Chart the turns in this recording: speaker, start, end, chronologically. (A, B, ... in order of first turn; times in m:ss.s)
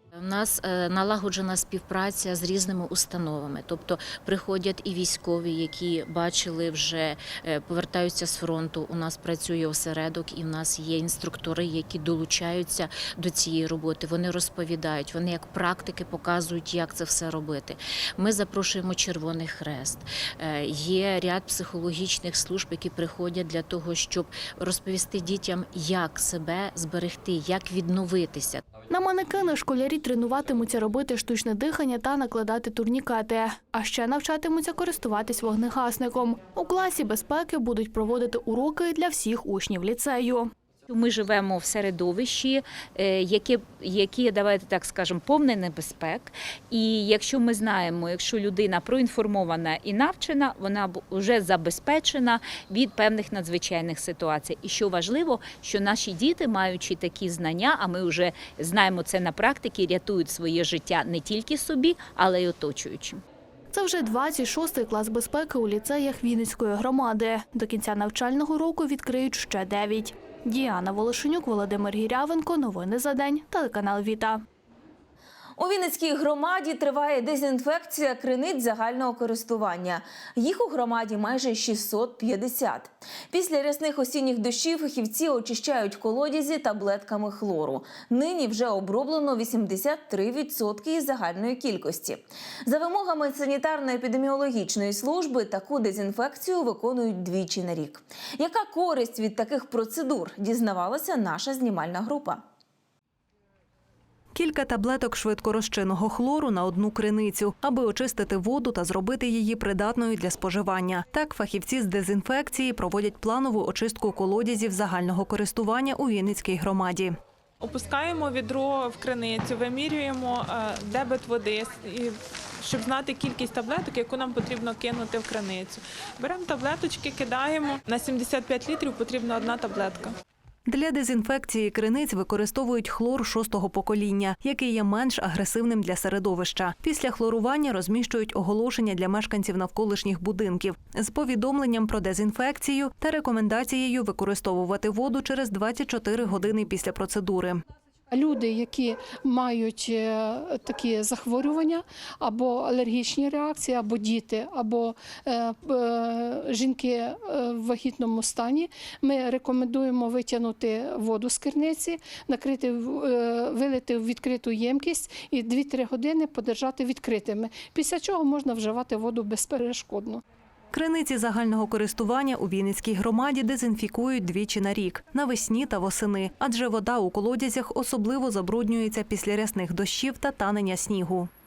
0:00.2-0:28.6 A
0:28.9-0:40.5 B
0:40.9-1:03.2 C
1:03.7-1:14.4 B
1:15.6-1:42.4 D
1:44.3-1:57.2 E
1:57.6-2:10.1 F
2:10.7-2:27.6 E
2:28.1-2:50.2 G
2:50.7-3:01.3 E